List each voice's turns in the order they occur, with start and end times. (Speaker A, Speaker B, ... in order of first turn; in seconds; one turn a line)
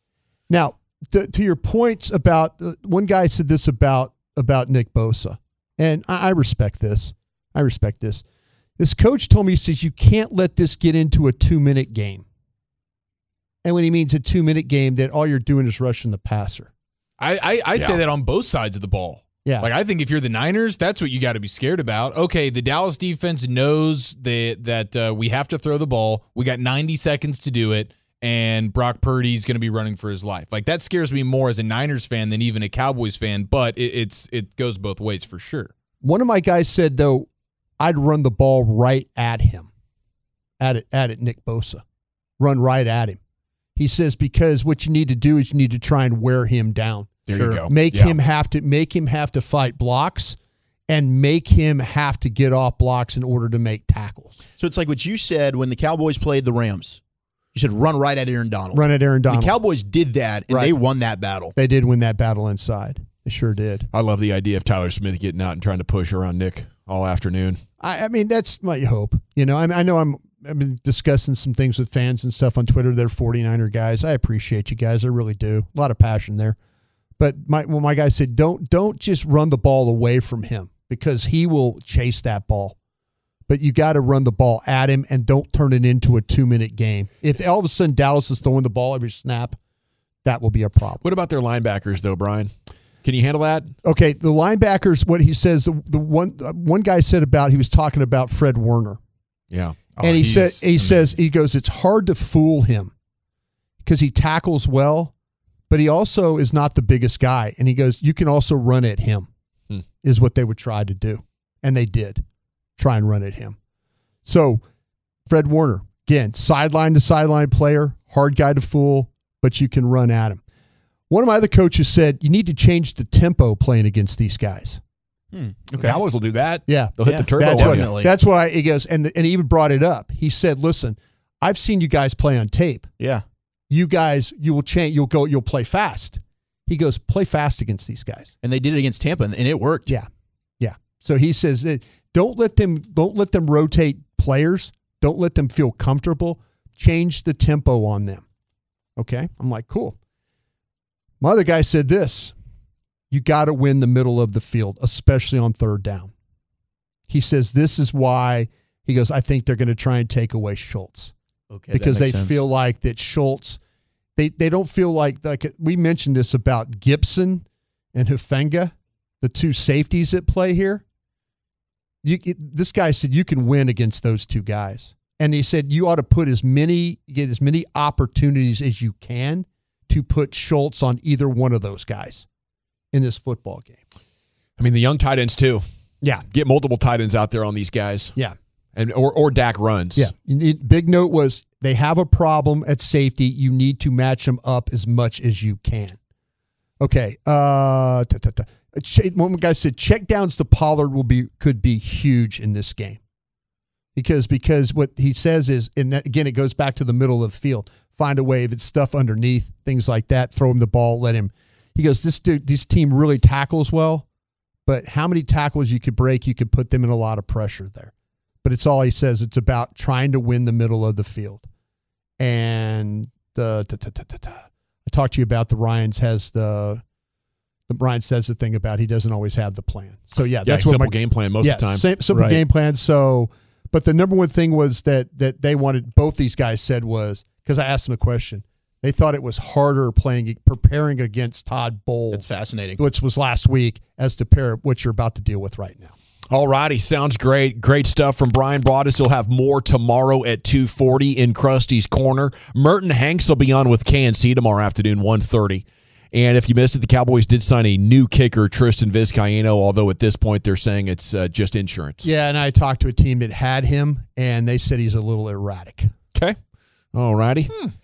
Speaker A: 0.5-8.2
Speaker A: 8.8-12.2
Speaker A: 13.6-16.7
Speaker B: 17.2-35.7
Speaker A: 19.4-19.7
Speaker A: 36.0-37.3
Speaker A: 37.8-39.7
Speaker A: 40.6-41.8
Speaker A: 42.4-43.2
Speaker A: 43.8-50.4
Speaker C: 47.3-48.1
Speaker A: 50.9-54.4
Speaker D: 54.6-57.0
Speaker D: 57.5-61.5
Speaker A: 58.7-59.6
Speaker A: 60.5-60.8
Speaker A: 61.5-63.9
Speaker C: 63.9-67.6
Speaker A: 67.8-76.6
Speaker A: 77.2-82.8
Speaker A: 83.5-89.6
Speaker A: 90.2-91.0
Speaker C: 91.0-92.5
Speaker C: 93.0-93.7
Speaker A: 93.8-99.0
Speaker C: 99.5-99.8
Speaker B: 100.0-101.1
Speaker A: 100.0-102.9
Speaker A: 103.8-105.1
Speaker A: 105.7-109.3
Speaker A: 110.0-112.2
Speaker A: 112.8-113.5
Speaker A: 114.2-114.6
Speaker A: 115.2-120.4
Speaker A: 121.1-124.8
Speaker D: 125.3-126.0
Speaker C: 125.8-127.9
Speaker A: 126.7-132.9
Speaker D: 127.0-128.1
Speaker A: 133.7-138.3
Speaker D: 138.4-139.9
Speaker A: 140.6-148.2
Speaker A: 148.9-150.0
Speaker A: 151.2-152.3
Speaker A: 153.1-156.1
Speaker A: 157.1-161.1
Speaker D: 161.5-162.4
Speaker A: 161.7-163.6
Speaker A: 164.2-170.8
Speaker A: 172.0-182.2
Speaker A: 182.9-183.8
Speaker C: 184.6-185.6
Speaker C: 186.3-188.1
Speaker C: 188.7-190.1
Speaker A: 189.9-196.0
Speaker A: 196.8-203.0
Speaker A: 203.9-214.1
Speaker A: 214.7-217.9
Speaker A: 218.4-221.5
Speaker A: 222.2-226.8
Speaker A: 227.7-245.9
Speaker C: 230.4-232.3
Speaker D: 242.1-242.8
Speaker C: 246.3-262.0
Speaker A: 262.0-265.9
Speaker C: 266.9-267.5